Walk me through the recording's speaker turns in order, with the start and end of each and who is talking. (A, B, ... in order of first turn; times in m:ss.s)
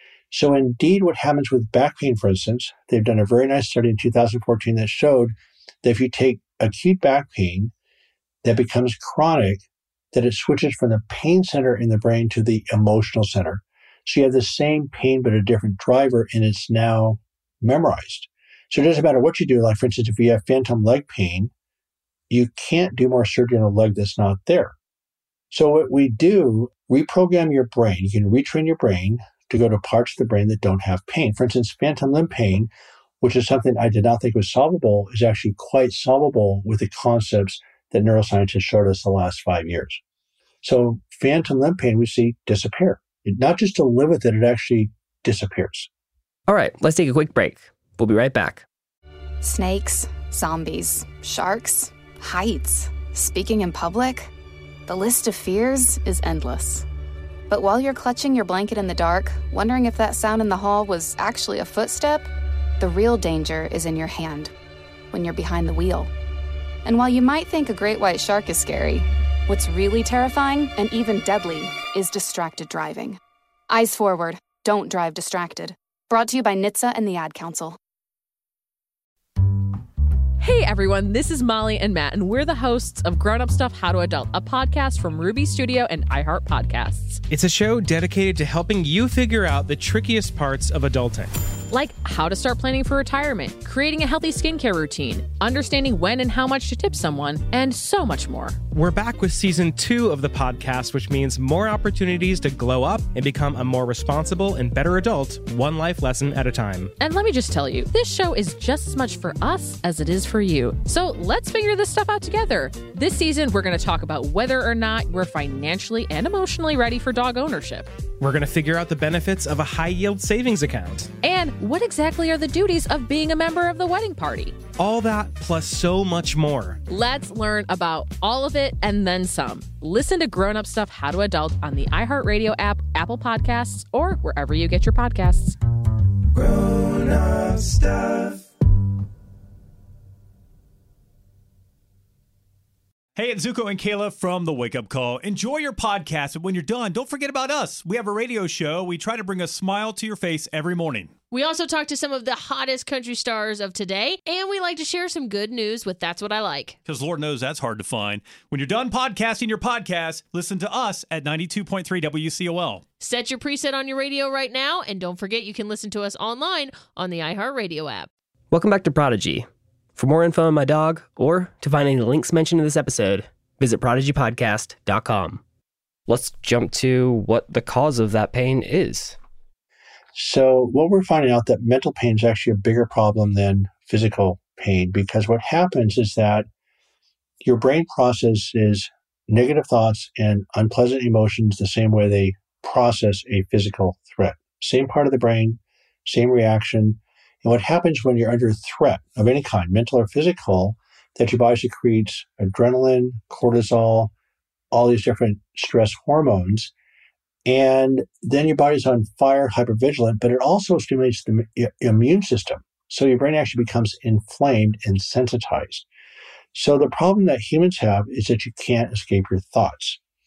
0:00.3-0:07.7 A
0:08.4-0:21.5 A
0:22.3-0:24.8 A
0:25.5-0:32.7 A
0:33.2-0:40.0 A
0:40.6-0:45.9 A
0:46.5-0:48.6 B
0:49.4-0:54.3 C
0:54.9-0:56.9 C
0:57.5-1:02.3 C
1:02.8-1:04.5 C
1:05.1-1:06.1 C
1:06.8-1:13.2 C
1:13.7-1:17.8 C
1:20.4-1:27.2 D
1:27.3-1:31.3 E
1:31.7-1:38.6 D
1:38.7-1:46.9 E
1:47.0-1:57.9 D
1:58.2-2:01.1 E
2:01.2-2:04.6 D
2:04.8-2:06.8 E
2:06.9-2:15.6 D
2:23.2-2:31.2 F
2:31.3-2:36.8 G
2:36.9-2:42.8 F
2:43.0-2:48.1 G
2:48.5-2:55.4 B
2:56.1-2:59.2 B
3:00.2-3:06.5 A
3:07.4-3:24.1 A
3:24.7-3:26.7 A
3:27.5-3:35.9 A
3:36.5-3:40.0 A